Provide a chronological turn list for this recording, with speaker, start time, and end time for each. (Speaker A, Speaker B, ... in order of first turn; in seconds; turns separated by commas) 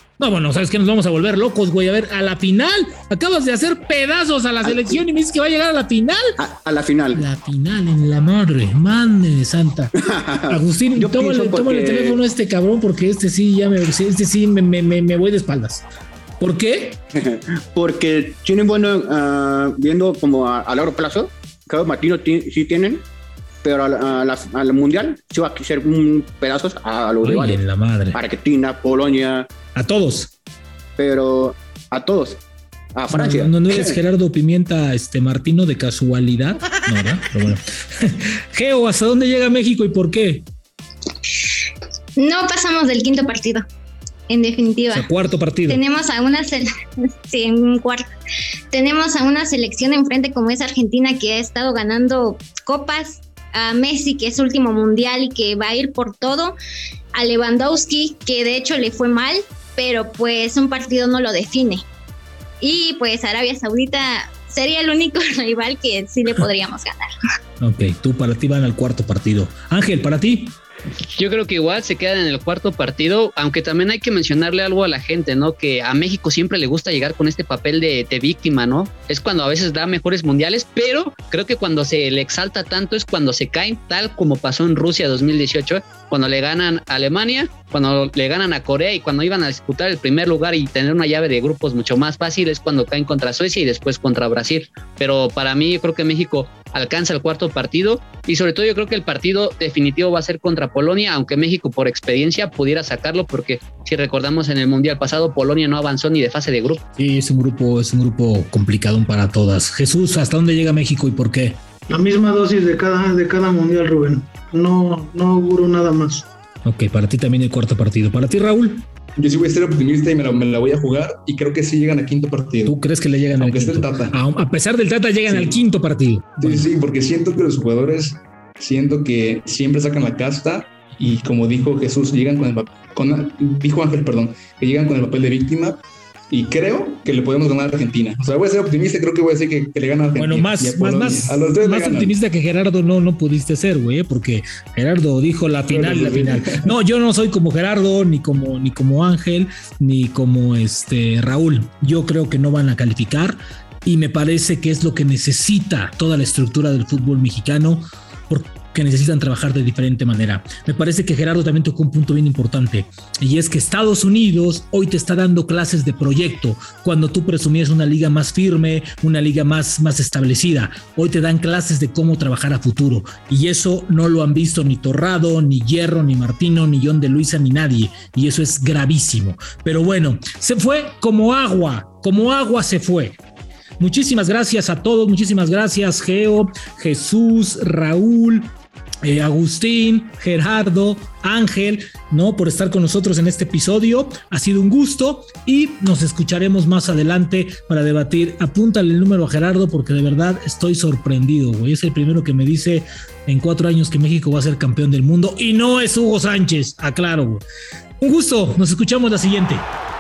Speaker A: 0.2-6.3, Speaker B: 4.7-5.0, Speaker B: 6.4-7.2, Speaker A: 7.1-9.9, Speaker B: 10.0-12.2, Speaker A: 10.5-15.9, Speaker A: 16.4-17.0, Speaker B: 17.1-23.1, Speaker B: 23.6-27.6, Speaker A: 27.2-28.2, Speaker B: 28.1-29.5, Speaker A: 29.8-30.3, Speaker B: 31.0-32.4, Speaker B: 33.0-34.0, Speaker A: 33.1-40.5, Speaker C: 42.2-43.7, Speaker C: 44.3-45.1, Speaker A: 44.9-45.8, Speaker C: 45.7-46.7, Speaker C: 47.2-48.1, Speaker C: 48.7-56.5, Speaker C: 57.1-61.9, Speaker C: 62.6-67.1, Speaker A: 67.6-70.6, Speaker D: 71.2-106.8, Speaker A: 107.0-111.6, Speaker E: 111.9-116.3, Speaker A: 116.7-118.9, Speaker F: 119.2-122.8, Speaker A: 122.7-126.7, Speaker F: 123.4-124.2, Speaker F: 125.3-125.6, Speaker F: 126.4-142.2, Speaker A: 140.2-183.2, Speaker F: 145.7-146.7, Speaker A: 183.8-188.5, Speaker A: 189.0-207.4, Speaker A: 208.0-209.7